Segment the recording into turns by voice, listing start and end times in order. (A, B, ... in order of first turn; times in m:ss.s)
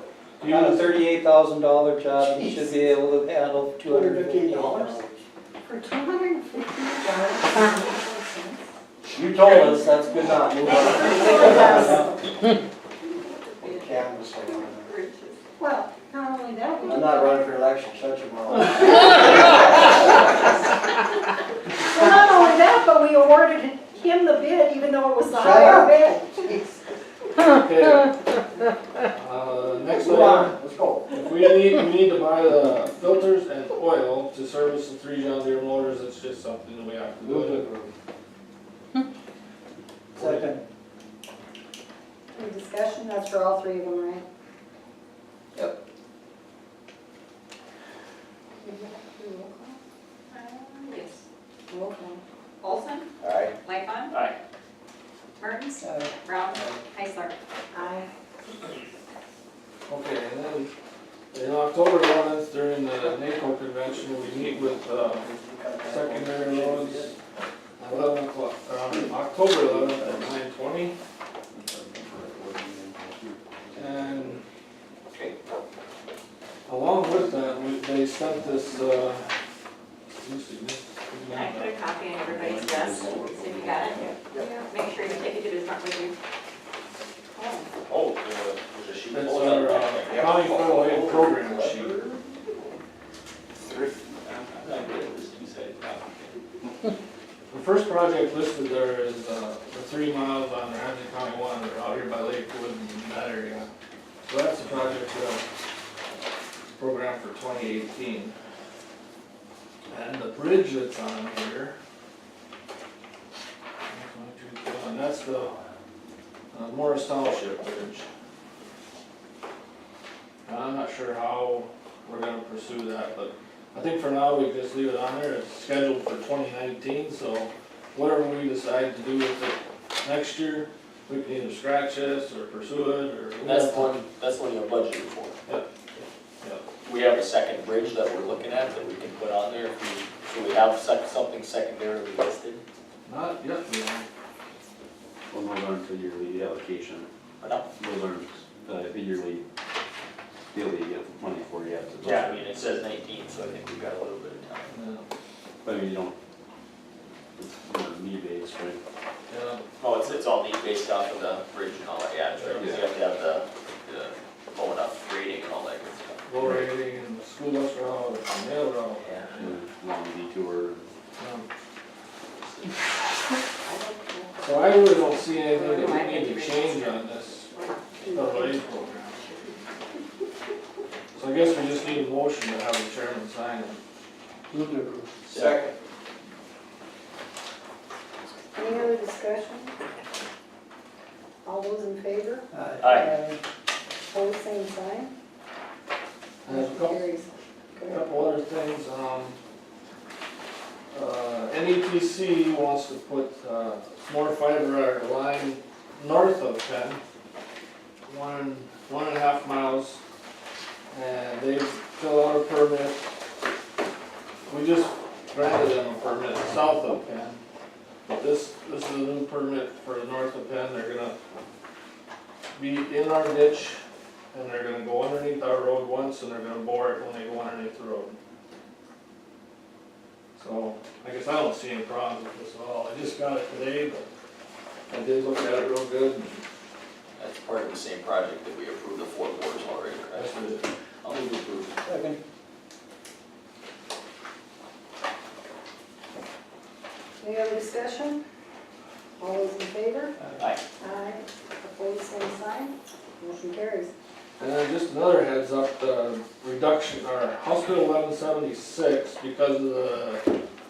0:00.4-0:00.9 A
0:00.4-0:05.2 B
0:03.9-0:05.0 C
0:05.6-0:08.7 C
0:09.1-0:12.2 B
0:09.5-0:12.4 C
0:13.0-0:15.4 D
0:13.6-0:14.9 B
0:15.6-0:17.6 C
0:16.8-0:20.3 B
0:21.8-0:26.6 C
0:25.3-0:26.8 B
0:27.4-0:28.2 A
0:29.1-0:30.6 A
0:29.9-0:31.1 B
0:31.1-0:37.7 A
0:37.2-0:37.9 B
0:40.1-0:40.6 B
0:40.2-0:40.4 A
0:42.3-0:44.2 C
0:48.6-0:49.8 C
0:50.3-0:51.2 D
0:51.7-0:52.2 C
0:52.6-0:53.1 D
0:53.2-0:53.5 E
0:53.6-0:54.2 D
0:54.1-0:54.4 E
0:55.4-0:57.4 D
0:55.8-0:56.7 B
0:57.7-0:58.1 C
0:59.9-1:00.7 A
1:01.3-1:05.3 A
1:04.0-1:07.2 B
1:05.8-1:07.2 A
1:07.8-1:11.0 A
1:09.5-1:10.4 F
1:11.5-1:14.4 F
1:13.7-1:14.4 A
1:16.7-1:19.3 A
1:20.1-1:21.9 A
1:21.2-1:26.2 D
1:22.2-1:24.2 F
1:24.4-1:24.7 C
1:27.3-1:27.7 D
1:27.9-1:32.2 E
1:29.1-1:32.0 A
1:33.7-1:36.4 E
1:37.5-1:43.7 A
1:44.3-1:45.4 A
1:46.8-1:48.3 A
1:49.9-1:51.8 A
1:53.9-1:55.5 A
1:55.2-1:55.6 E
1:56.5-1:58.1 A
2:00.4-2:14.0 A
2:13.4-2:15.4 E
2:16.8-2:22.6 E
2:23.0-2:24.1 A
2:25.3-2:27.1 F
2:27.4-2:27.7 E
2:27.8-2:29.4 F
2:30.5-2:32.5 F
2:32.0-2:34.7 E
2:34.7-2:35.1 A
2:35.6-2:36.1 F
2:37.4-2:38.8 F
2:39.3-2:39.6 A
2:39.8-2:46.2 E
2:42.3-2:42.7 A
2:46.2-2:49.5 A
2:49.0-2:49.3 E
2:49.4-2:50.8 F
2:51.2-2:51.5 A
2:53.6-2:59.7 D
2:54.4-2:57.5 A
2:58.1-2:59.0 A
3:01.2-3:03.8 A
3:01.5-3:02.0 D
3:04.5-3:05.7 B
3:05.2-3:05.6 E
3:08.5-3:09.7 C
3:11.4-3:13.2 C
3:12.5-3:13.4 B
3:12.8-3:13.1 E
3:14.1-3:15.1 C
3:16.4-3:17.0 A
3:16.5-3:18.0 C
3:17.9-3:19.4 A
3:20.9-3:27.0 A
3:28.0-3:30.0 A
3:30.9-3:33.1 A
3:34.5-3:37.4 A
3:38.1-3:41.2 A
3:42.6-3:43.8 A
3:44.3-3:48.2 A
3:50.4-3:54.1 A
3:54.9-3:56.4 A
3:57.2-4:00.4 E
4:00.2-4:00.6 A
4:01.0-4:01.8 E
4:01.8-4:02.2 B
4:07.2-4:08.2 C
4:09.2-4:10.2 C
4:10.8-4:13.9 C
4:14.4-4:20.3 A